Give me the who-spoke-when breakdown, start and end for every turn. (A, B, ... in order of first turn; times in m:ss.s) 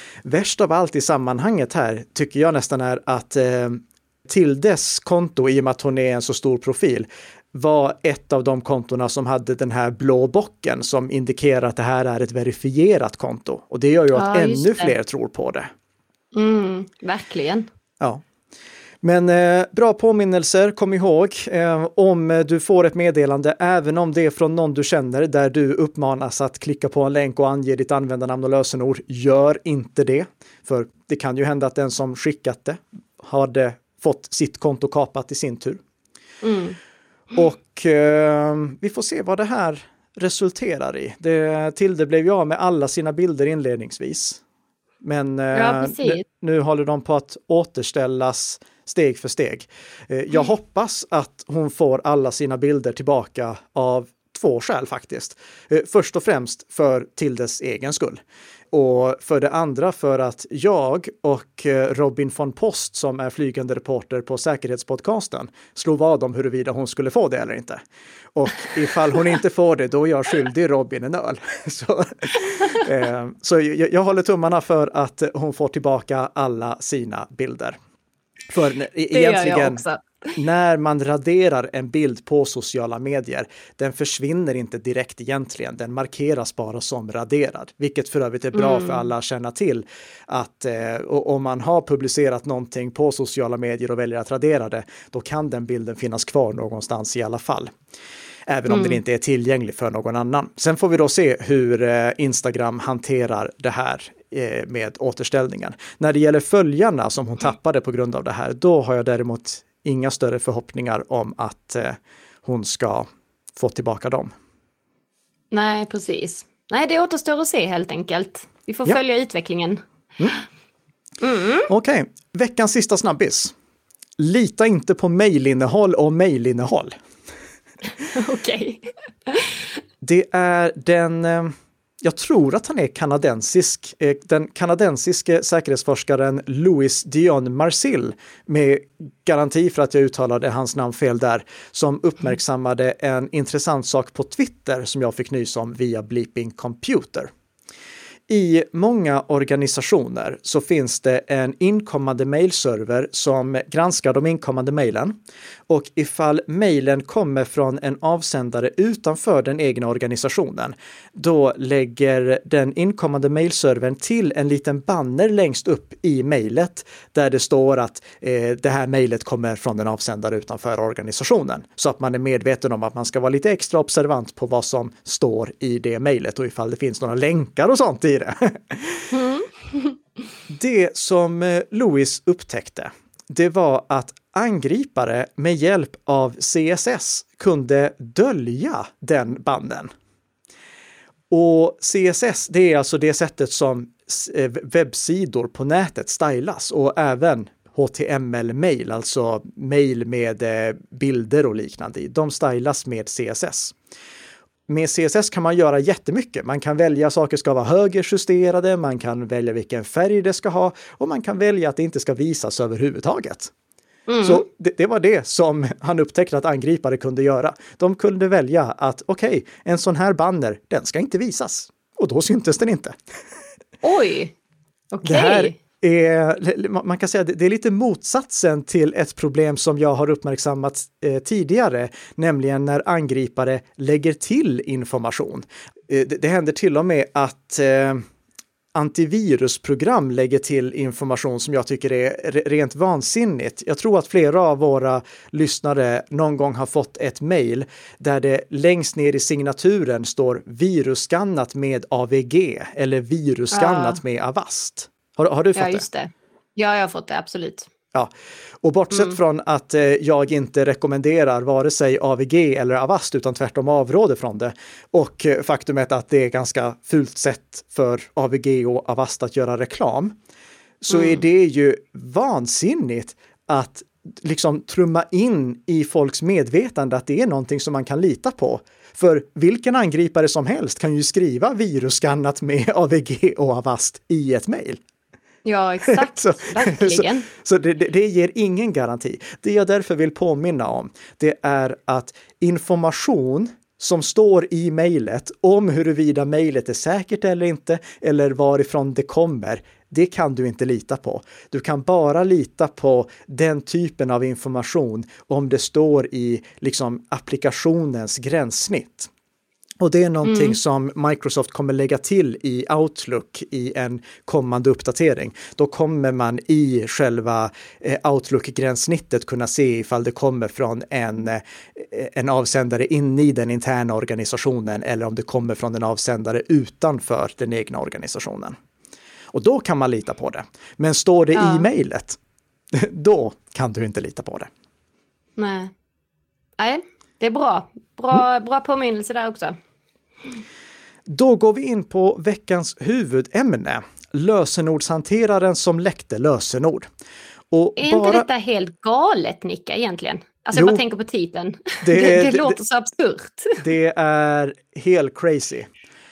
0:00.2-0:15.7 A
0:14.1-0:14.9 B
0:16.3-0:17.7 B
0:19.0-0:35.8 A
0:36.4-0:36.8 B
0:37.3-0:44.4 A
0:45.0-0:58.2 A
0:45.5-0:46.2 B
0:58.7-1:07.8 A
1:08.4-1:17.8 A
1:18.5-1:19.8 A
1:19.1-1:20.0 B
1:20.4-1:37.7 A
1:28.5-1:29.0 B
1:38.5-1:54.3 A
1:38.7-1:39.0 B
1:55.5-1:59.8 B
2:01.2-2:01.7 B
2:01.7-2:03.5 A
2:04.2-2:06.9 A
2:08.1-2:09.7 B
2:10.0-2:27.3 A
2:28.3-2:35.2 A
2:35.7-2:59.1 A
2:59.1-2:59.9 B
3:00.5-3:09.9 A
3:11.3-3:23.8 A
3:24.7-3:33.5 A
3:34.1-3:34.4 B
3:34.2-3:42.9 A
3:43.8-3:44.3 B
3:44.9-3:45.5 B
3:45.0-3:58.0 A
3:58.8-4:15.8 A
4:13.5-4:14.0 B
4:15.6-4:17.7 B
4:18.6-4:30.1 A
4:30.8-4:44.8 A
4:30.9-4:31.2 B
4:45.4-4:47.3 B
4:45.8-5:09.1 A
5:09.8-5:28.6 A
5:10.2-5:10.6 B
5:29.3-5:32.2 A
5:31.4-5:31.7 B
5:32.7-5:34.5 A
5:35.4-5:35.7 B
5:36.6-5:39.6 B
5:41.1-5:46.9 A
5:47.5-5:48.3 A
5:47.8-5:53.6 B
5:50.5-5:50.8 A
5:51.8-5:52.6 A
5:53.6-5:55.7 A